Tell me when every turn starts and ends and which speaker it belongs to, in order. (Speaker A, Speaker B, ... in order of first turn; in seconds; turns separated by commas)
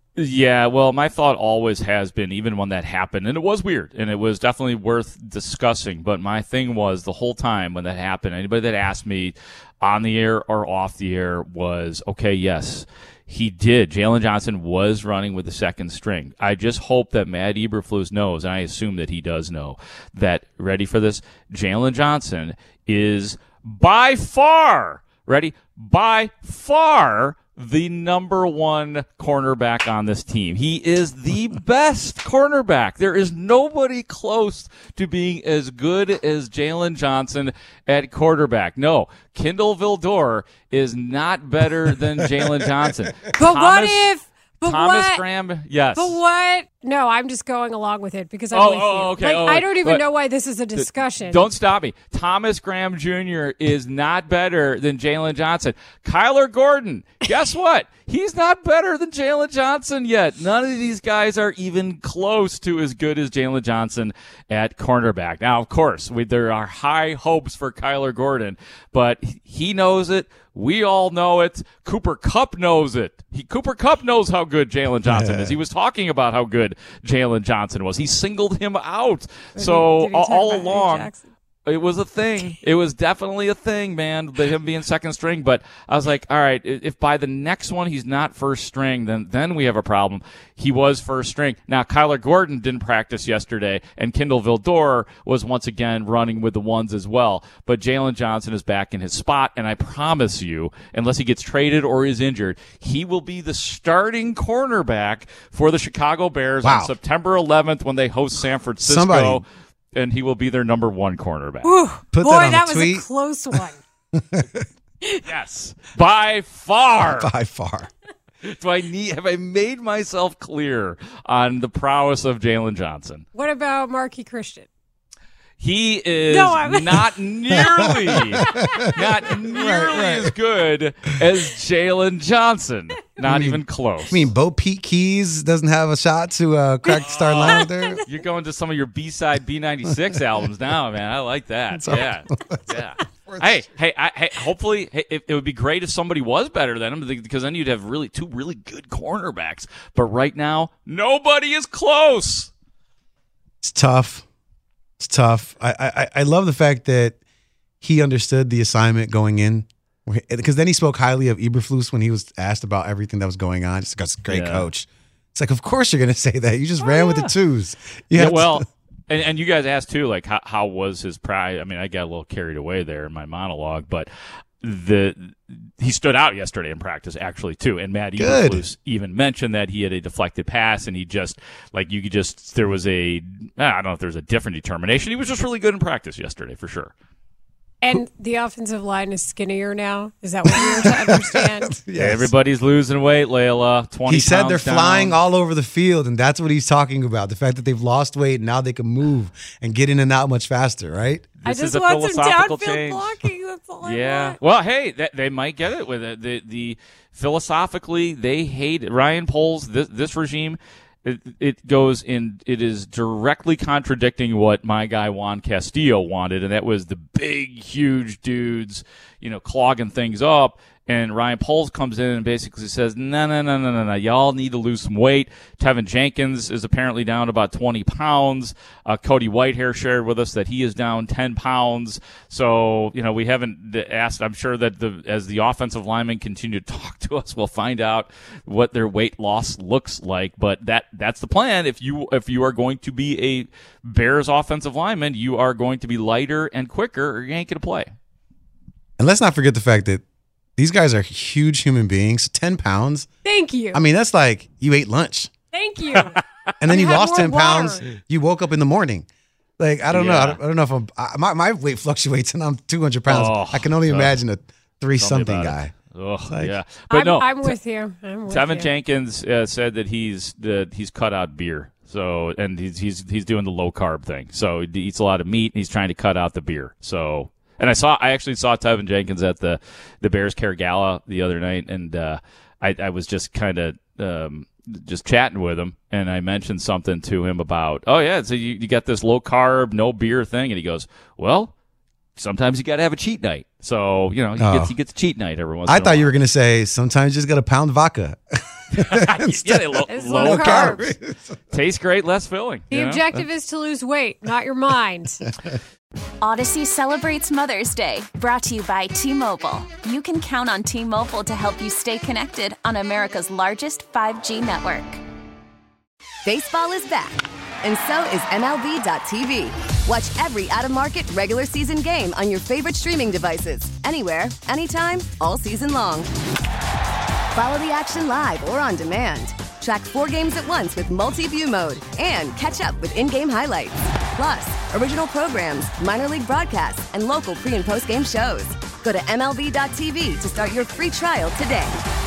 Speaker A: 0.2-46.2, Speaker B: 43.4-45.2, Speaker B: 46.0-51.4, Speaker A: 48.5-50.0, Speaker A: 50.7-81.1, Speaker C: 75.0-75.5, Speaker B: 79.5-81.2, Speaker A: 81.7-111.8, Speaker C: 106.6-106.9, Speaker C: 108.8-109.4, Speaker B: 111.6-113.7, Speaker C: 112.1-113.0, Speaker C: 114.1-114.6, Speaker A: 115.2-117.3, Speaker C: 117.0-117.9, Speaker A: 118.4-123.2, Speaker B: 123.3-124.7, Speaker A: 125.6-134.3, Speaker B: 126.3-127.0, Speaker C: 128.7-130.3, Speaker C: 133.2-138.0, Speaker B: 136.9-137.7, Speaker A: 137.0-152.5, Speaker C: 141.7-143.7, Speaker C: 153.6-154.2, Speaker C: 155.0-157.2, Speaker C: 157.8-168.6, Speaker A: 164.3-164.7, Speaker A: 166.8-167.3, Speaker A: 168.1-174.1, Speaker A: 174.6-186.9, Speaker C: 178.2-178.6, Speaker B: 187.8-191.7, Speaker C: 190.6-192.3, Speaker A: 191.9-195.2, Speaker C: 194.1-201.3, Speaker A: 201.4-203.2, Speaker B: 201.4-204.4, Speaker A: 203.8-247.9, Speaker C: 249.0-250.0, Speaker C: 250.6-253.1, Speaker B: 253.2-253.8, Speaker C: 253.7-255.3, Speaker B: 255.5-256.2, Speaker C: 256.6-259.1, Speaker B: 256.7-257.8, Speaker C: 259.6-265.7, Speaker A: 259.9-260.4, Speaker A: 263.1-264.2, Speaker A: 265.0-267.6, Speaker C: 266.3-266.6, Speaker B: 266.9-268.7, Speaker A: 268.3-291.5, Speaker A: 292.2-296.1, Speaker C: 294.4-294.7, Speaker C: 295.7-298.2, Speaker C: 298.7-301.4, Speaker A: 298.7-300.9, Speaker B: 299.9-300.8, Speaker A: 301.5-303.2, Speaker B: 302.7-305.2, Speaker D: 306.2-315.0, Speaker E: 316.2-326.1, Speaker E: 327.4-341.7